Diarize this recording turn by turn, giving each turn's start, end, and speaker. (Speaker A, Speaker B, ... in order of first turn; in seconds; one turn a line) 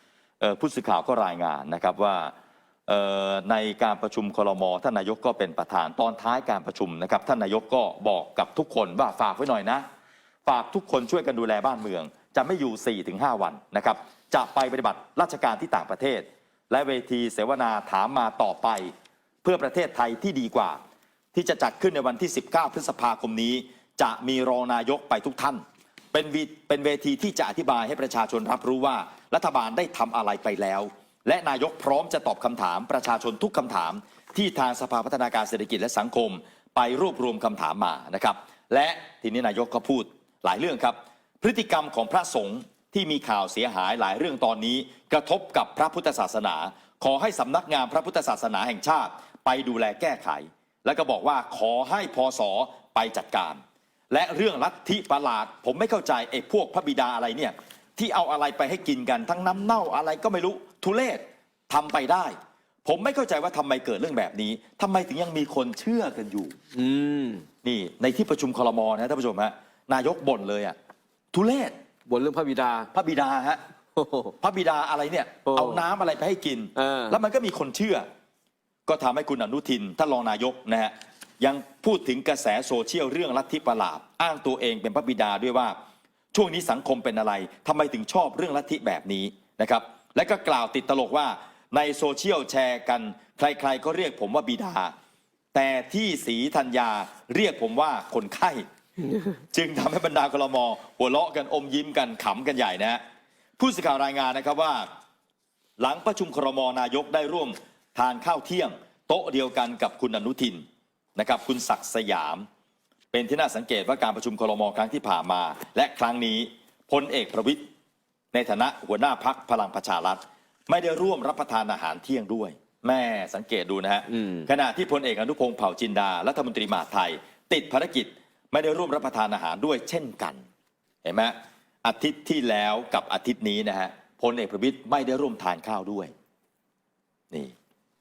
Speaker A: 0.4-2.3
Speaker A: 2.9-9.8
Speaker A: 10.4-20.8
Speaker A: 21.3-53.6
Speaker A: 54.1-66.5
Speaker B: 66.7-67.4
Speaker A: 67.6-70.8
Speaker A: 71.3-71.8
Speaker B: 72.1-72.9
Speaker A: 72.9-73.6
Speaker B: 74.0-74.3
Speaker A: 74.4-78.0
Speaker B: 75.5-75.8
Speaker B: 76.8-77.2
Speaker A: 78.8-85.8
Speaker A: 86.3-94.9
Speaker A: 95.5-98.6
Speaker A: 99.5-103.0
Speaker A: 103.6-104.9
Speaker A: 105.8-110.6
Speaker A: 111.2-112.5
Speaker A: 113.1-117.6
Speaker A: 118.3-130.4
Speaker A: 131.0-136.1